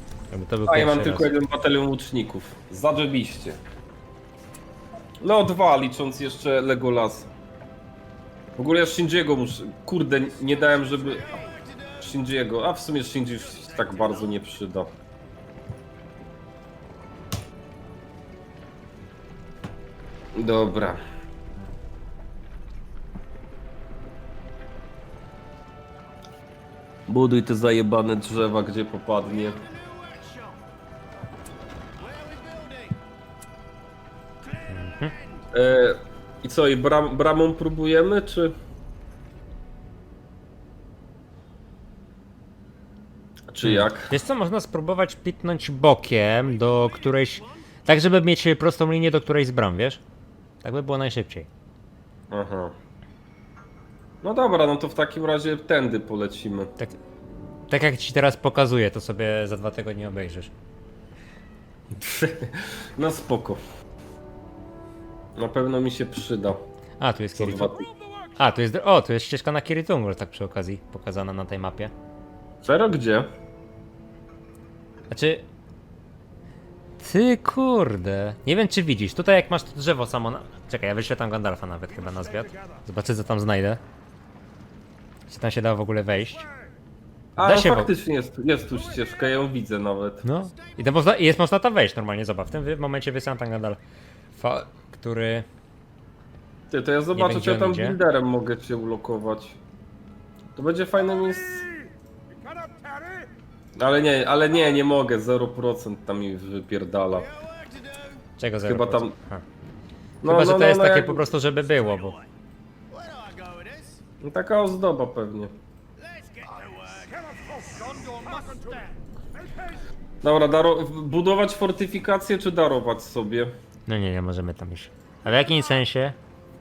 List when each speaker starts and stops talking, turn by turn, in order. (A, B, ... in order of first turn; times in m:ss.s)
0:00.3-0:01.3 A
0:00.7-0:03.6 B
0:05.2-0:07.3 B
0:08.6-0:11.4 B
0:12.0-0:14.9 B
0:20.3-0:21.0 B
0:27.1-0:29.6 B
0:29.5-0:30.6 C
0:32.0-0:33.0 C
0:34.7-0:35.1 A
0:35.0-0:35.4 C
0:35.5-0:38.5 B
0:43.5-0:44.1 B
0:43.6-0:50.0 A
0:46.8-0:47.4 C
0:50.6-0:51.5 A
0:52.3-0:52.7 B
0:54.2-0:56.7 B
0:56.8-1:00.5 A
1:02.0-1:03.6 B
1:05.3-1:06.6 B
1:07.0-1:07.8 A
1:07.3-1:07.9 B
1:08.4-1:11.9 A
1:12.6-1:13.3 B
1:15.1-1:15.4 A
1:17.0-1:23.8 A
1:25.3-1:26.5 A
1:27.4-1:30.2 B
1:27.4-1:27.9 A
1:30.2-1:33.8 A
1:34.3-1:35.5 A
1:36.7-1:39.6 B
1:37.1-1:38.0 A
1:40.6-1:41.7 B
1:43.8-1:47.3 B
1:47.2-1:48.2 C
1:48.4-1:49.4 A
1:48.6-1:49.2 B
1:50.2-1:51.3 B
1:50.2-1:52.2 A
1:52.9-1:54.0 C
1:54.2-1:55.5 B
1:56.0-1:58.9 C
2:00.2-2:03.5 B
2:03.9-2:06.2 A